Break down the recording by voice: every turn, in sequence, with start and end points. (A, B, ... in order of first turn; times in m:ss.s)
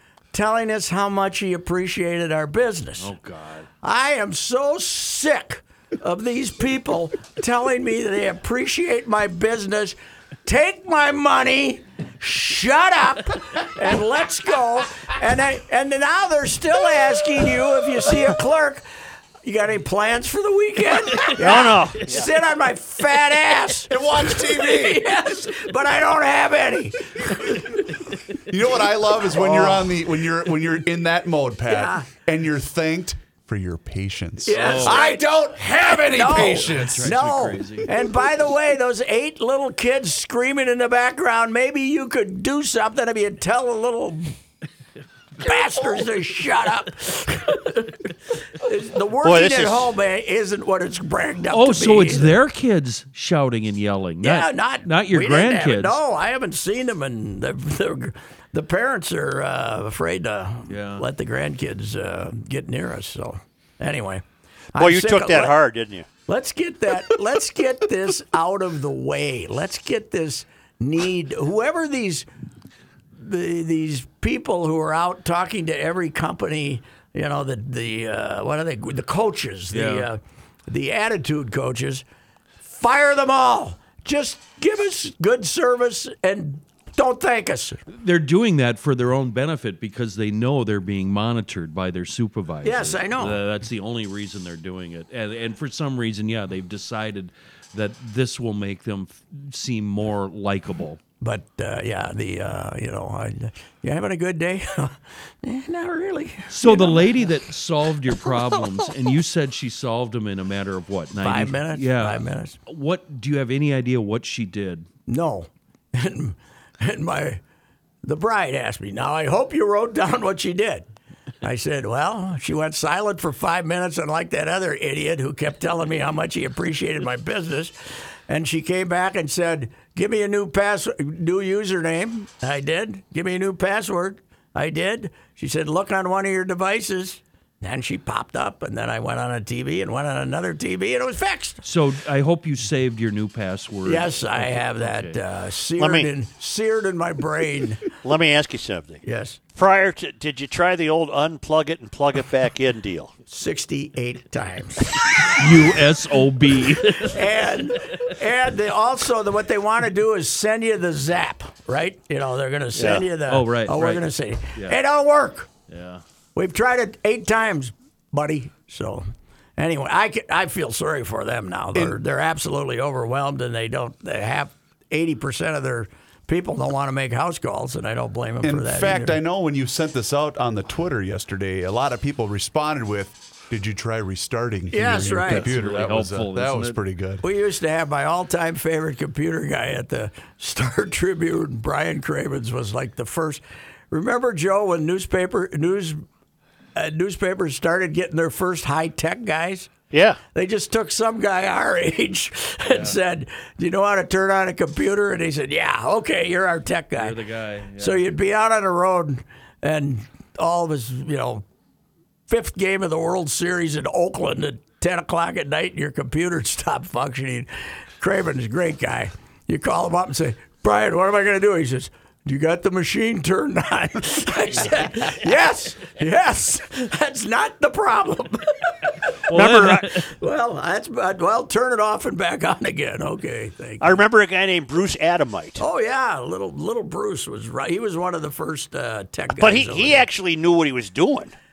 0:00.3-0:03.1 A
0:03.0-0:03.7 B
0:03.8-0:18.8 A
0:19.4-0:27.9 A
0:21.4-0:22.3 C
0:23.9-0:25.2 D
0:28.4-0:37.1 D
0:29.3-0:29.9 A
0:31.7-0:32.1 A
0:34.4-0:44.4 A
0:34.5-0:35.2 B
0:36.3-0:37.9 B
0:45.4-0:52.4 A
0:49.2-0:49.9 C
0:51.5-0:56.0 B
0:54.2-1:04.2 A
1:00.7-1:01.0 B
1:04.7-1:05.6 A
1:04.8-1:06.1 C
1:06.3-1:12.3 A
1:13.2-1:22.0 A
1:19.7-1:20.1 B
1:22.6-1:27.8 A
1:27.9-1:41.0 B
1:32.6-1:33.4 A
1:41.2-1:47.4 A
1:46.5-1:54.9 B
1:51.2-1:52.6 A
1:55.1-1:57.4 A
1:58.0-2:00.9 A
2:01.4-2:07.7 A
2:08.3-2:21.6 A
2:21.6-2:25.2 B
2:23.8-2:27.8 A
2:25.8-2:26.1 C
2:28.0-2:29.0 C
2:29.0-2:29.4 A
2:29.5-2:33.1 C
2:33.3-2:35.6 A
2:35.4-2:37.2 B
2:36.8-2:45.5 A
2:42.7-2:43.0 C
2:43.2-2:44.8 B
2:45.7-2:46.0 B
2:46.4-2:59.2 A
2:58.4-3:07.2 D
3:04.7-3:05.5 A
3:05.2-3:06.8 B
3:07.2-3:16.0 A
3:16.7-3:19.7 A
3:19.9-3:20.2 C
3:20.3-3:27.2 A
3:22.6-3:23.0 B
3:27.0-3:28.0 B
3:27.8-3:31.4 A
3:32.3-3:54.0 A
3:49.3-3:50.0 B
3:49.3-3:49.9 C
3:53.8-3:55.6 C
3:55.6-4:00.0 A
3:59.3-4:01.3 C